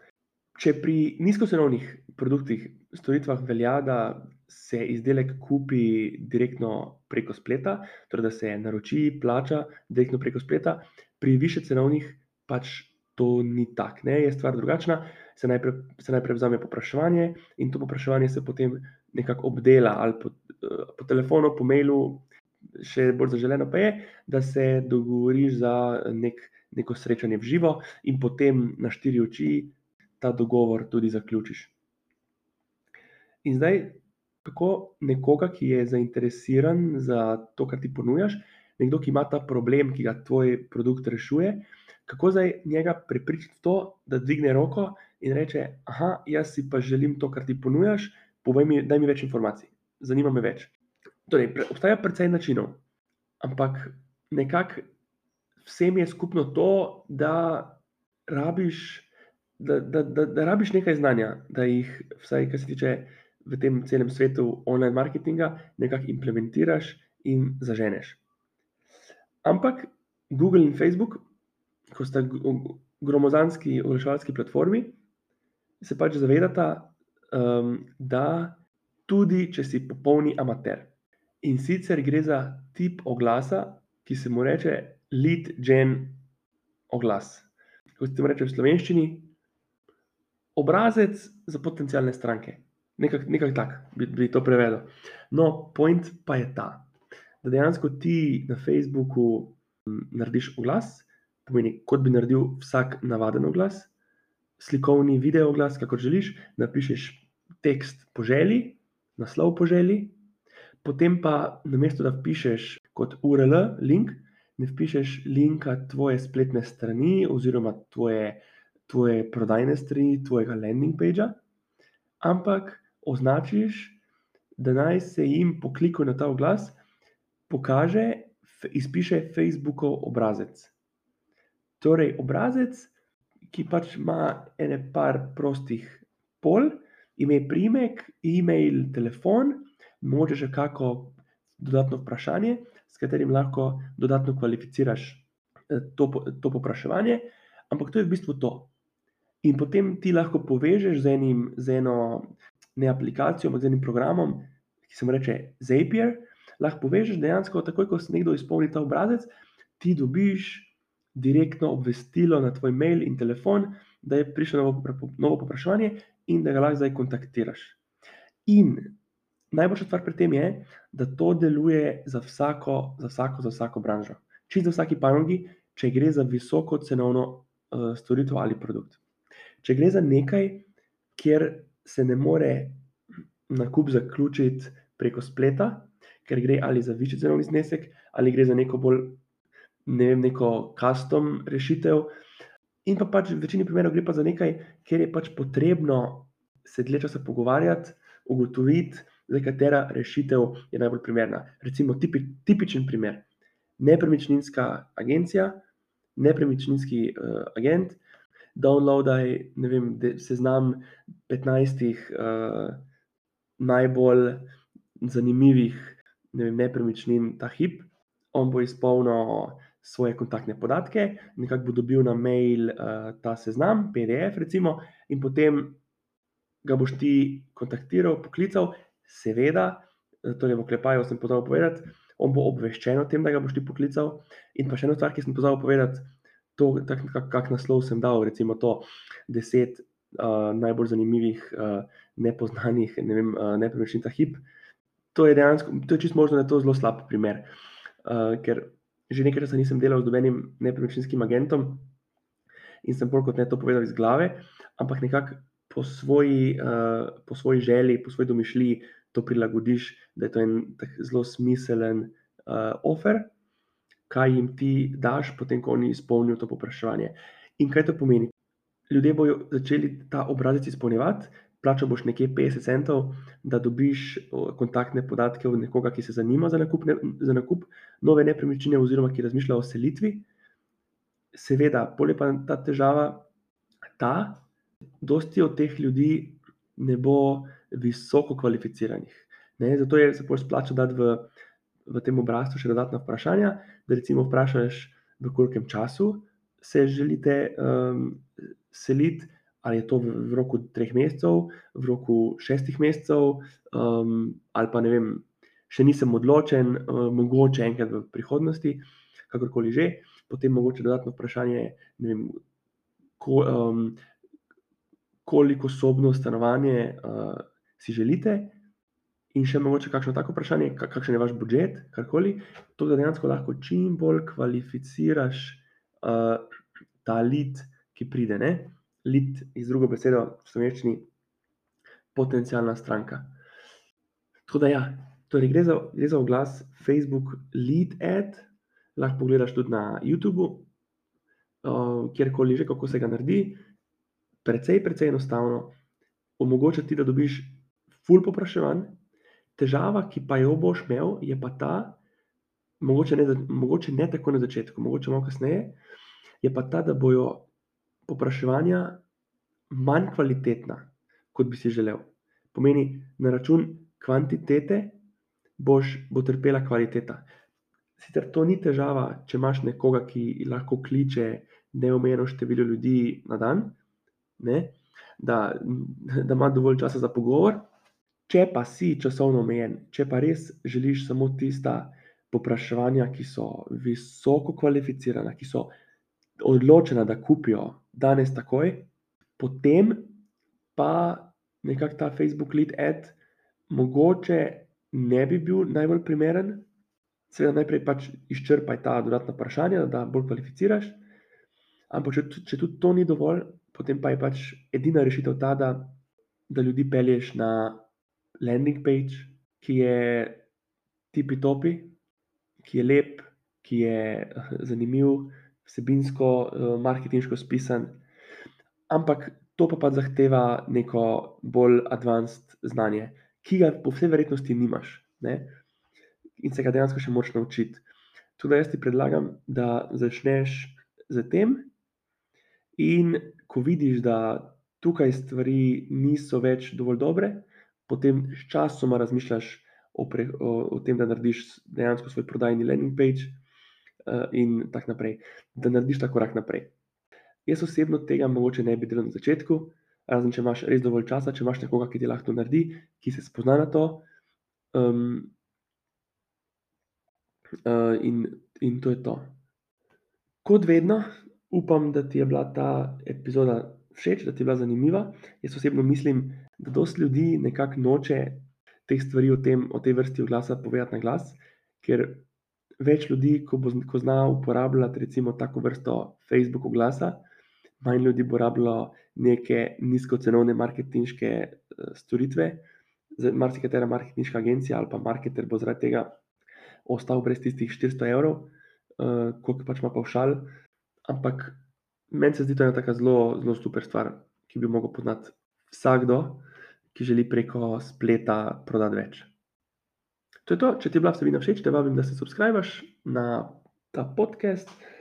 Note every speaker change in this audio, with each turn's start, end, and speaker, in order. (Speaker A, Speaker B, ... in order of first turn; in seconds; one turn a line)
Speaker A: 0.6-22.2
Speaker A: 22.8-31.7
Speaker A: 33.4-50.7
Speaker A: 51.3-52.8
Speaker A: 53.4-54.9
Speaker A: 55.6-68.2
Speaker A: 69.4-71.2
Speaker A: 71.9-75.0
Speaker A: 75.8-86.2
Speaker A: 86.9-89.3
Speaker A: 90.5-96.9
Speaker A: 97.4-103.9
Speaker A: 104.6-110.1
Speaker A: 110.8-121.4
Speaker A: 122.2-124.0
Speaker A: 124.6-126.8
Speaker A: 127.5-130.7
Speaker A: 131.8-132.9
Speaker A: 133.5-148.7
Speaker A: 149.4-167.8
Speaker A: 168.4-169.0
Speaker A: 169.5-179.0
Speaker A: 179.6-182.8
Speaker A: 183.5-189.2
Speaker A: 189.9-192.1
Speaker A: 192.8-203.2
Speaker A: 203.8-205.6
Speaker A: 206.2-208.0
Speaker A: 208.5-212.8
Speaker A: 213.6-225.8
Speaker A: 226.6-244.4
Speaker A: 245.1-247.5
Speaker A: 248.0-251.9
Speaker A: 252.8-263.3
Speaker A: 264.1-268.3
Speaker A: 268.9-280.2
Speaker A: 281.3-283.3
Speaker A: 284.0-284.4
Speaker A: 285.0-291.3
Speaker A: 291.9-312.4
Speaker A: 313.2-314.0
Speaker A: 315.2-318.6
Speaker A: 319.3-326.5
Speaker A: 327.0-331.1
Speaker A: 332.1-333.4
Speaker A: 334.5-340.7
Speaker A: 341.6-343.6
Speaker A: 344.4-345.8
Speaker A: 346.4-349.0
Speaker A: 349.6-352.0
Speaker A: 352.8-355.8
Speaker A: 356.4-357.5
Speaker A: 358.1-359.0
Speaker A: 359.7-365.0
Speaker A: 365.6-367.3
Speaker A: 368.0-373.8
Speaker A: 374.4-377.7
Speaker A: 378.3-385.7
Speaker A: 386.4-390.2
Speaker A: 390.8-393.1
Speaker A: 393.7-396.7
Speaker A: 397.3-401.0
Speaker A: 401.9-406.0
Speaker A: 406.5-407.8
Speaker A: 408.4-410.4
Speaker A: 411.1-411.9
Speaker A: 412.6-418.0
Speaker A: 418.9-425.6
Speaker A: 426.4-427.8
Speaker A: 428.4-431.7
Speaker A: 432.8-443.4
Speaker A: 444.1-446.7
Speaker A: 447.4-454.0
Speaker A: 454.7-455.3
Speaker A: 457.6-459.4
Speaker A: 460.4-472.3
Speaker A: 472.8-477.2
Speaker A: 477.8-482.6
Speaker A: 483.2-486.2
Speaker A: 486.9-490.5
Speaker A: 491.1-491.6
Speaker A: 492.1-499.3
Speaker A: 500.4-504.8